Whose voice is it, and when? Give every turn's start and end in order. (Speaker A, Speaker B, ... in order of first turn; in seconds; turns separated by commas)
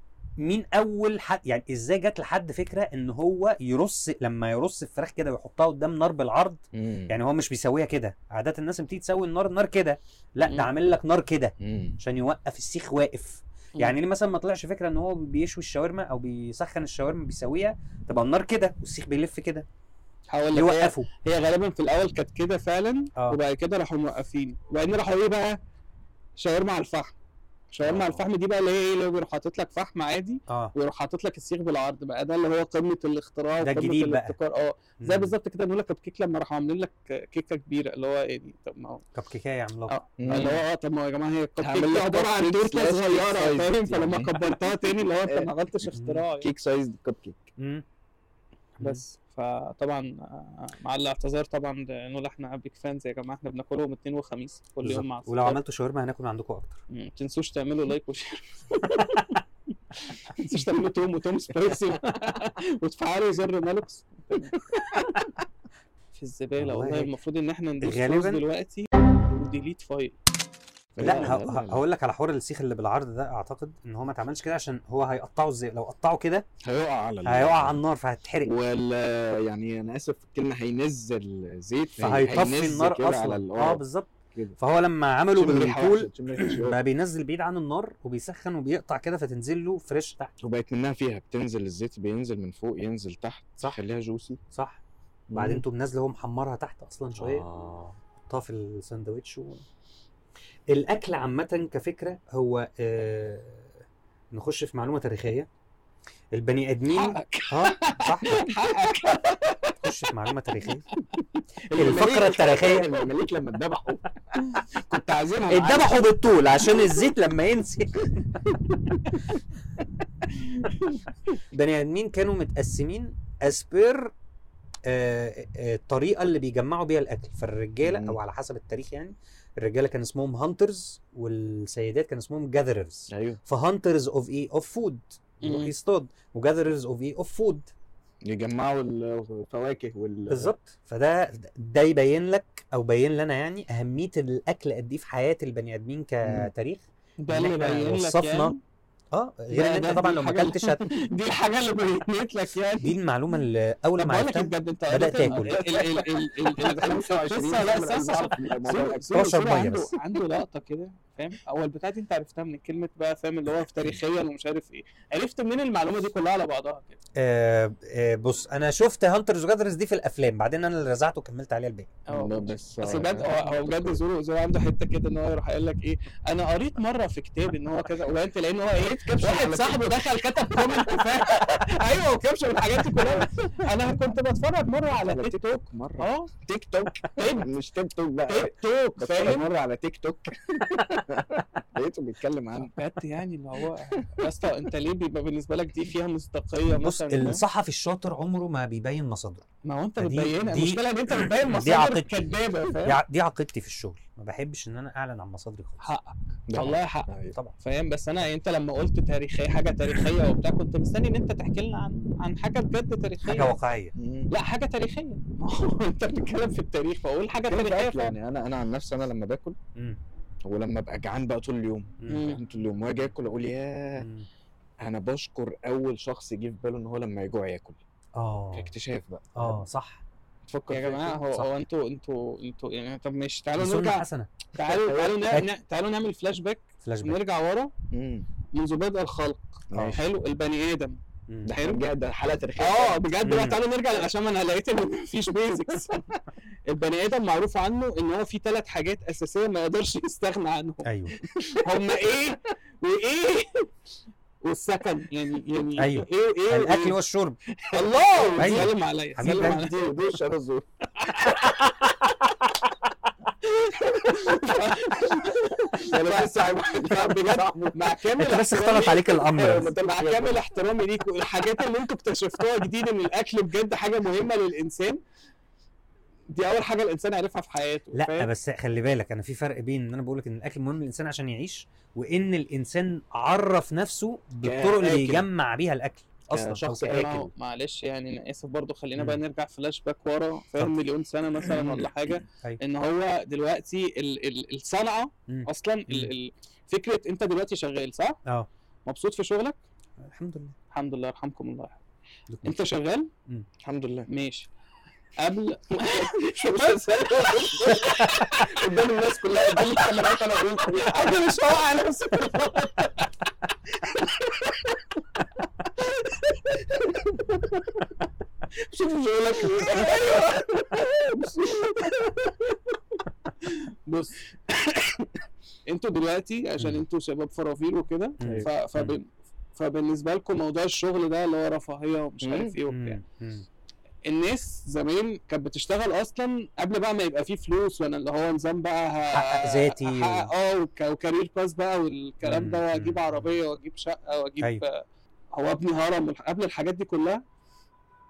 Speaker A: 0.4-19.6, Speaker B: 6.8-7.1, Speaker B: 11.6-12.0, Speaker C: 20.3-25.6, Speaker A: 20.5-21.1, Speaker C: 26.4-27.2, Speaker C: 27.7-39.0, Speaker A: 27.9-28.2, Speaker A: 30.5-30.7, Speaker A: 33.6-34.4, Speaker A: 35.0-35.3, Speaker A: 39.1-40.6, Speaker C: 39.9-46.5, Speaker B: 40.2-40.6, Speaker B: 41.6-44.3, Speaker A: 46.0-46.2, Speaker B: 46.4-47.5, Speaker A: 47.6-47.9, Speaker C: 48.8-55.6, Speaker A: 54.8-56.8, Speaker C: 56.9-59.4, Speaker C: 60.0-65.1, Speaker C: 66.1-70.1, Speaker A: 66.6-67.1, Speaker A: 67.8-68.4, Speaker B: 71.0-71.8, Speaker A: 71.0-76.5, Speaker B: 76.6-77.8, Speaker A: 77.2-78.5, Speaker B: 78.5-83.8, Speaker A: 82.0-90.3, Speaker B: 85.3-86.8, Speaker B: 90.4-94.4, Speaker A: 94.5-94.8, Speaker B: 95.3-95.6, Speaker A: 95.3-99.6, Speaker B: 97.2-97.7, Speaker A: 100.7-103.7, Speaker A: 104.3-105.5, Speaker A: 106.3-108.5, Speaker C: 106.9-109.8, Speaker A: 109.8-110.9, Speaker C: 110.9-111.2, Speaker B: 111.7-114.1, Speaker A: 111.8-112.9, Speaker C: 114.4-116.0, Speaker B: 115.3-115.7, Speaker A: 115.5-118.2, Speaker C: 120.4-121.0, Speaker A: 121.5-124.1, Speaker A: 124.9-137.7, Speaker B: 127.8-128.2, Speaker B: 133.1-133.4, Speaker C: 135.4-135.7, Speaker B: 138.2-140.5, Speaker A: 140.3-148.6, Speaker B: 146.2-146.5, Speaker C: 147.2-148.6, Speaker A: 149.1-150.9, Speaker C: 149.5-153.0, Speaker A: 152.8-155.6, Speaker C: 154.0-167.0, Speaker B: 155.3-159.1, Speaker A: 159.1-159.9, Speaker A: 167.2-171.9, Speaker C: 172.1-186.3, Speaker B: 172.1-174.0, Speaker B: 178.8-181.1, Speaker B: 183.0-183.3, Speaker B: 185.1-192.7, Speaker C: 187.1-187.5, Speaker C: 188.3-189.5, Speaker C: 192.6-197.4, Speaker A: 196.7-199.4, Speaker C: 199.7-203.0, Speaker A: 200.0-202.3, Speaker A: 202.8-205.9, Speaker C: 205.8-213.5, Speaker B: 206.5-207.3, Speaker A: 213.2-213.9, Speaker B: 214.0-214.3, Speaker C: 214.3-218.1, Speaker B: 217.4-219.6, Speaker B: 220.5-224.1, Speaker A: 222.0-222.4, Speaker C: 222.1-222.4, Speaker A: 224.0-224.3, Speaker B: 224.8-227.8, Speaker A: 228.2-228.7, Speaker B: 228.5-229.6, Speaker A: 229.4-230.0, Speaker B: 230.5-231.2, Speaker C: 230.7-237.7, Speaker A: 233.6-234.3, Speaker B: 234.6-235.2, Speaker A: 236.8-237.2, Speaker B: 237.9-238.3, Speaker C: 238.5-241.9, Speaker B: 239.7-240.0, Speaker A: 239.7-240.0, Speaker B: 241.5-243.1, Speaker C: 242.6-250.9, Speaker A: 243.2-243.6, Speaker A: 250.8-251.2, Speaker C: 251.5-253.7, Speaker C: 254.4-257.0, Speaker A: 255.8-257.4, Speaker C: 257.7-259.9, Speaker B: 257.7-258.7, Speaker A: 258.4-259.7, Speaker B: 259.2-261.2, Speaker C: 263.4-275.0, Speaker B: 264.0-264.3, Speaker B: 265.8-267.8, Speaker A: 268.2-269.7, Speaker B: 269.4-270.4, Speaker C: 276.3-278.3, Speaker A: 277.9-287.3, Speaker B: 284.4-285.3, Speaker B: 286.3-287.1, Speaker C: 286.8-298.2, Speaker A: 295.3-296.1, Speaker C: 298.9-299.6, Speaker A: 300.0-300.5, Speaker C: 300.7-301.8, Speaker A: 302.3-302.5, Speaker C: 302.4-303.1, Speaker B: 303.6-304.1, Speaker C: 304.1-304.5, Speaker C: 305.2-308.6, Speaker B: 305.9-311.2, Speaker C: 309.6-310.1, Speaker C: 310.7-313.1, Speaker C: 313.8-314.8, Speaker C: 315.8-316.3, Speaker B: 316.9-317.2, Speaker B: 318.7-320.0, Speaker C: 319.3-325.1, Speaker C: 325.7-333.0, Speaker A: 328.2-329.0, Speaker B: 328.2-328.5, Speaker B: 332.2-332.5, Speaker A: 332.7-333.5, Speaker C: 334.0-347.2, Speaker A: 339.1-340.3, Speaker A: 342.2-343.3